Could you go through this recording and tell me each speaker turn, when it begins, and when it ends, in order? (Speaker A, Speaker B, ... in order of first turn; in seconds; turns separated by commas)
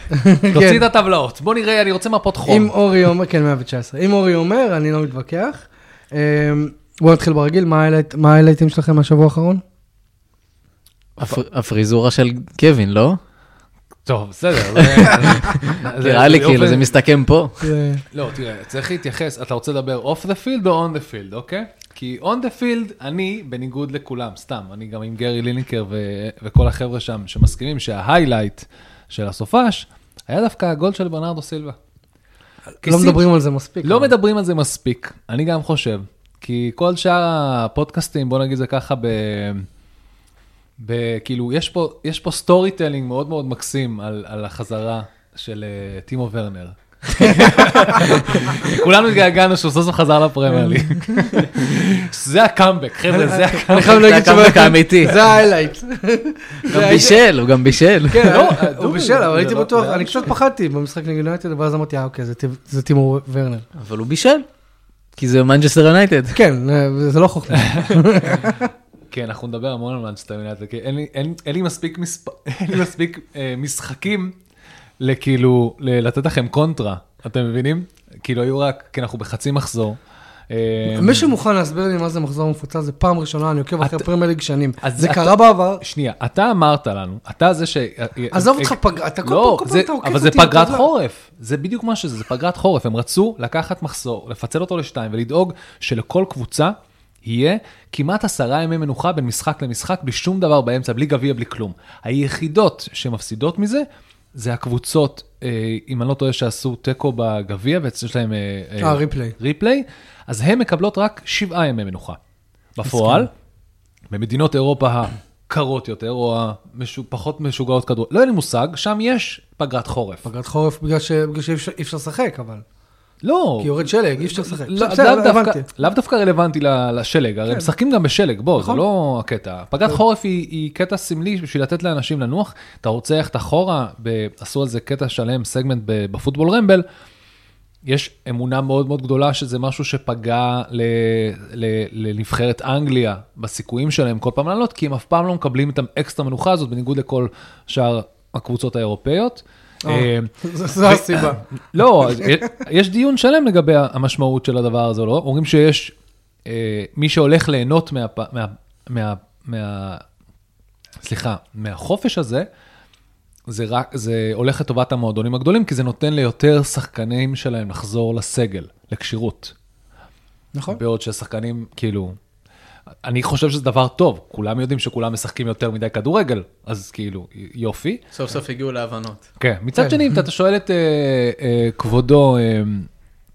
Speaker A: 0.1-0.8, Speaker B: 0.5-2.7, Speaker A: 2.5-9.6, Speaker C: 11.2-13.2, Speaker B: 14.1-16.9, Speaker C: 14.7-17.7, Speaker A: 17.6-18.0, Speaker B: 18.1-31.8, Speaker A: 32.8-34.1, Speaker B: 32.8-33.3, Speaker B: 33.8-39.7, Speaker B: 40.8-54.4, Speaker A: 47.1-48.1, Speaker C: 48.0-48.8, Speaker A: 50.5-51.4, Speaker A: 53.1-57.2, Speaker C: 53.7-55.2, Speaker C: 56.7-58.4, Speaker B: 56.7-57.0, Speaker A: 58.1-63.7, Speaker B: 58.1-60.3, Speaker C: 63.8-64.5, Speaker C: 65.2-66.4, Speaker A: 66.3-68.7, Speaker B: 67.5-68.4, Speaker B: 69.1-74.4, Speaker B: 75.0-80.0, Speaker B: 80.5-81.3, Speaker A: 80.9-85.8, Speaker B: 83.8-84.1, Speaker B: 84.8-112.2, Speaker A: 88.3-90.9, Speaker A: 108.8-109.4, Speaker B: 112.8-113.3, Speaker A: 112.9-113.3, Speaker B: 114.1-120.2, Speaker A: 120.2-122.7, Speaker B: 123.2-136.8, Speaker A: 123.6-125.7, Speaker A: 128.6-128.8, Speaker B: 137.8-150.3, Speaker A: 149.8-151.4, Speaker B: 150.8-155.9, Speaker B: 156.4-160.0, Speaker B: 161.0-162.5, Speaker B: 163.5-169.5, Speaker A: 170.6-170.8, Speaker B: 170.7-172.2, Speaker B: 173.0-178.0, Speaker C: 178.1-179.3, Speaker B: 179.4-182.9, Speaker A: 179.8-180.1